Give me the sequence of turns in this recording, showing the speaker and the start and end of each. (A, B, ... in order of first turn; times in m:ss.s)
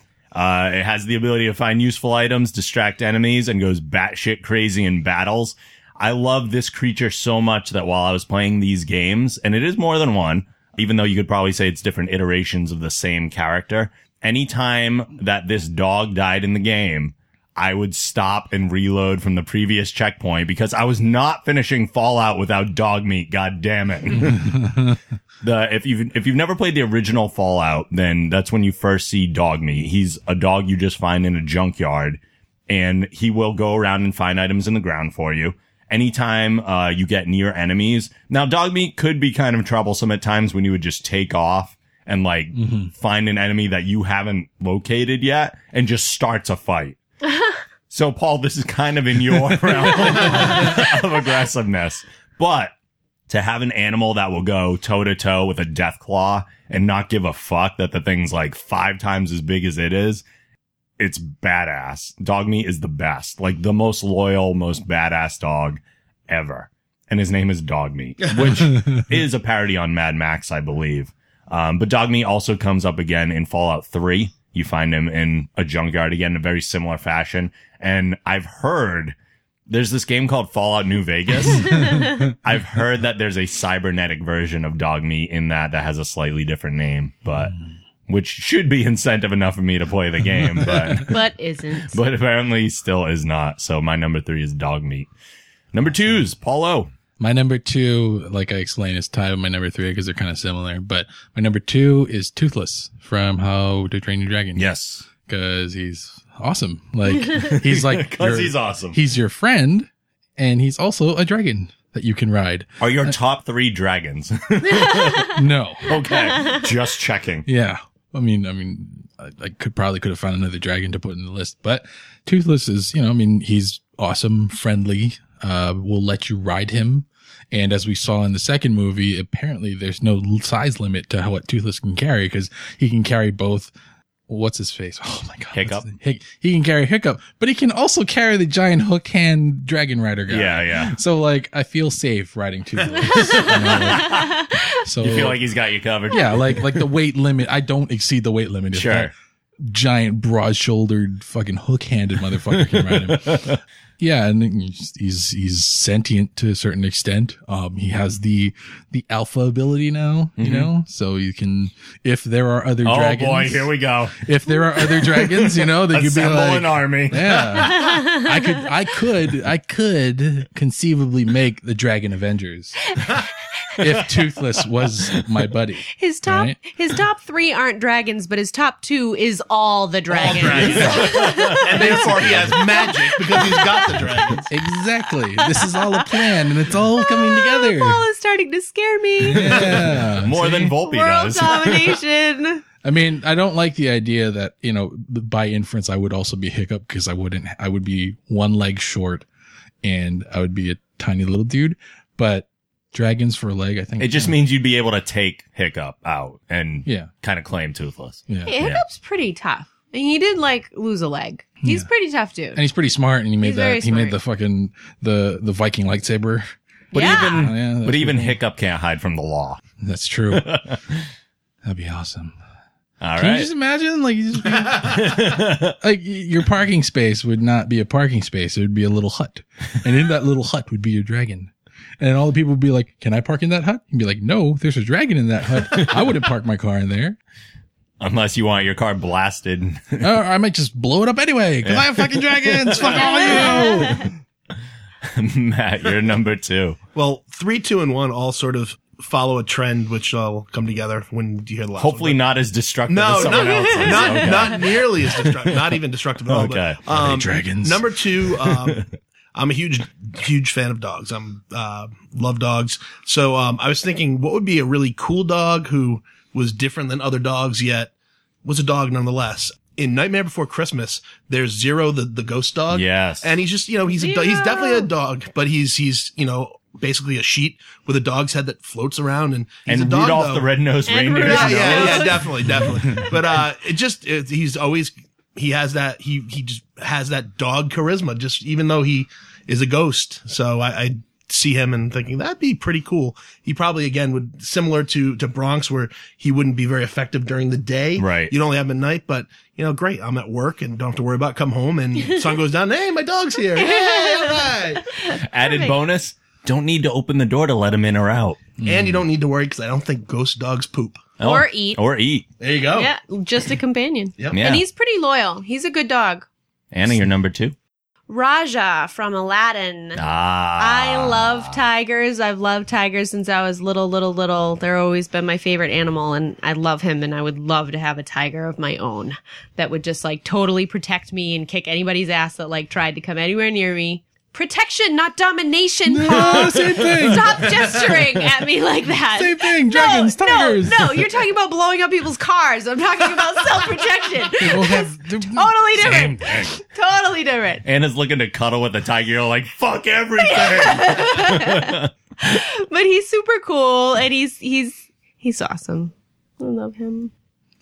0:00.3-0:24.6 A
0:24.2-0:25.0 B
0:25.4-0:47.0 A
0:42.5-0:42.9 B
0:47.9-0:52.7 A
0:53.3-1:00.2 A
1:01.0-1:19.1 A
1:08.4-1:09.0 B
1:19.7-1:27.5 A
1:21.6-1:22.2 C
1:21.7-1:22.2 B
1:28.1-1:31.2 A
1:30.6-1:31.0 B
1:31.0-1:32.0 C
1:31.9-1:35.1 A
1:35.7-1:36.9 A
1:37.2-1:44.7 B
1:44.6-1:45.1 A
1:45.2-1:53.1 B
1:47.3-1:49.0 A
1:52.8-1:55.3 A
1:55.3-1:56.0 B
1:55.8-1:57.5 A
1:57.4-2:13.7 B
2:14.3-2:25.4 B
2:15.5-2:15.9 A
2:20.3-2:21.0 A
2:23.1-2:24.6 C
2:23.4-2:24.4 A
2:25.0-2:26.8 A
2:26.1-2:29.1 B
2:28.7-2:29.1 A
2:29.6-2:53.0 B
2:32.6-2:33.6 A
2:40.4-2:40.7 A
2:42.8-2:44.2 A
2:44.8-2:47.7 A
2:47.6-2:48.6 C
2:53.8-2:56.6 B
2:55.9-3:04.4 C
3:00.1-3:04.5 D
3:00.2-3:02.5 A
3:00.7-3:01.0 B
3:01.8-3:02.5 B
3:04.5-3:08.0 B
3:05.3-3:06.3 C
3:07.0-3:09.7 C
3:09.2-3:10.7 B
3:09.5-3:12.0 A
3:10.8-3:12.6 C
3:12.8-3:19.2 B
3:19.8-3:24.4 B
3:24.0-3:28.8 A
3:26.8-3:27.1 B
3:28.3-3:28.6 B
3:28.4-3:32.6 C
3:31.6-3:31.9 B
3:32.5-3:38.4 B
3:33.4-3:34.2 C
3:36.9-3:37.5 C
3:37.0-3:39.6 A
3:39.8-3:40.6 B
3:40.3-3:41.0 A
3:41.6-3:42.3 B
3:43.0-3:43.5 A
3:43.2-3:57.2 B
3:44.8-3:45.7 A
3:55.7-3:56.0 A
3:58.0-4:00.1 A
4:00.0-4:04.1 B
4:01.6-4:03.7 A
4:02.9-4:04.1 C
4:05.1-4:06.8 A
4:06.9-4:12.2 D
4:11.8-4:15.6 A
4:12.9-4:27.9 D
4:13.2-4:14.6 C
4:16.3-4:16.8 A
4:16.9-4:18.0 B
4:28.4-4:40.5 D
4:32.7-4:33.4 A
4:33.9-4:34.9 C
4:39.7-4:42.3 A
4:40.9-4:43.1 C
4:41.2-5:04.8 D
4:58.0-4:58.3 A
5:03.6-5:05.8 C
5:05.1-5:08.4 A
5:08.6-5:09.0 B
5:08.6-5:11.1 D
5:11.2-5:12.2 A
5:11.2-5:11.8 C
5:12.4-5:12.9 D
5:12.7-5:16.3 C
5:14.3-5:14.6 A
5:16.7-5:17.5 A
5:18.1-5:20.0 C
5:20.0-5:21.6 A
5:20.6-5:47.6 C
5:35.9-5:37.7 B
5:39.2-5:41.1 B
5:44.4-5:46.6 B
5:47.6-5:51.9 A
5:50.2-5:57.1 C